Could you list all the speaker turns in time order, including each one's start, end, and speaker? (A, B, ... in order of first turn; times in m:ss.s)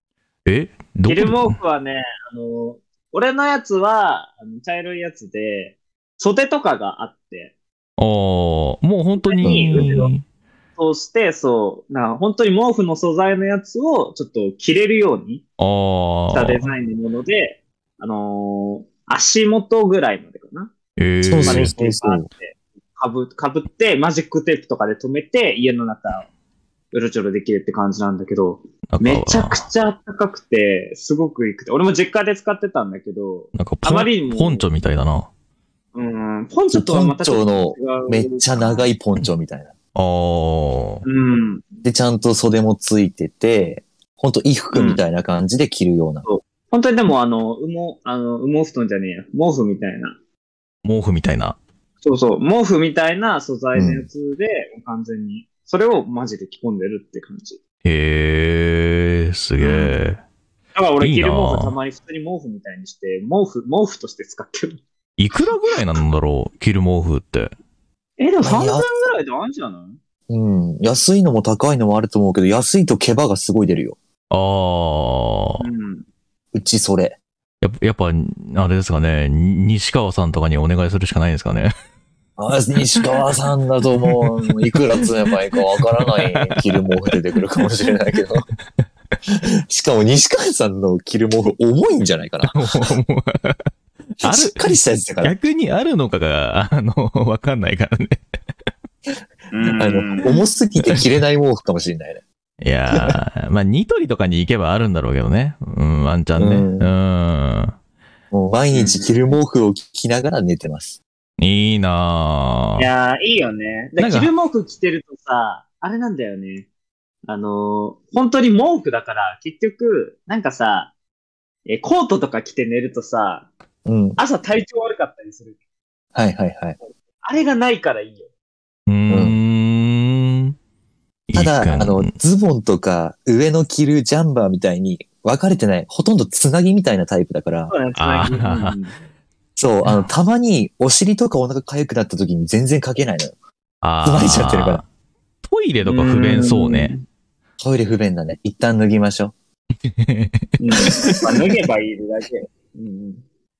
0:00.4-0:01.6 A
0:01.0-0:07.5 B
0:08.0-0:10.2 A
0:09.2-0:10.1 B
0:09.4-0:09.9 C
0:10.8-0:15.4 B
0:15.6-0:16.7 A
0:16.3-0:20.7 B
0:21.0-0:21.7 A
0:21.2-0:22.3 C
0:21.4-0:26.3 B
0:26.9-0:34.6 B
0:28.9-0:29.6 A
0:33.5-0:35.3 A
0:35.9-0:38.9 B
0:36.7-0:39.7 C
0:39.9-0:41.0 A
0:41.0-0:41.7 B
0:41.8-0:46.3 C
0:44.7-0:45.0 B
0:46.2-0:50.2 B
0:50.8-0:51.6 A
0:52.0-0:57.6 B
0:53.7-0:54.1 C
0:57.8-1:00.2 A
0:59.6-1:00.0 B
1:00.7-1:04.8 B
1:01.0-1:01.7 A
1:05.2-1:07.5 A
1:08.2-1:10.0 B
1:08.4-1:08.8 C
1:10.3-1:14.0 C
1:14.3-1:15.6 A
1:15.6-1:16.0 B
1:16.5-1:17.2 C
1:17.6-1:21.7 A
1:22.4-1:28.5 C
1:24.0-1:24.5 A
1:26.1-1:27.9 A
1:29.3-1:32.9 C
1:32.4-1:33.7 A
1:34.2-1:35.3 C
1:34.2-1:34.7 A
1:35.2-1:38.2 A
1:39.5-1:40.3 B
1:39.8-1:42.2 C
1:42.6-1:47.7 A
1:42.9-1:43.2 C
1:46.4-1:46.9 C
1:48.3-1:51.0 C
1:48.7-1:49.3 B
1:51.4-1:52.9 A
1:52.8-1:56.7 B
1:54.0-1:54.3 A
1:57.2-2:00.9 B
2:01.6-2:03.5 B
2:03.8-2:04.2 C
2:04.2-2:05.6 B
2:06.1-2:06.8 C
2:07.2-2:08.3 B
2:08.9-2:10.6 A
2:09.1-2:09.4 C
2:11.3-2:12.1 A
2:11.3-2:17.7 C
2:17.7-2:18.9 B
2:18.0-2:18.8 A
2:19.6-2:23.3 C
2:23.8-2:24.8 A
2:24.0-2:24.8 C
2:25.4-2:26.9 A
2:25.8-2:27.0 B
2:27.6-2:29.3 C
2:29.8-2:30.5 A
2:30.6-2:33.2 B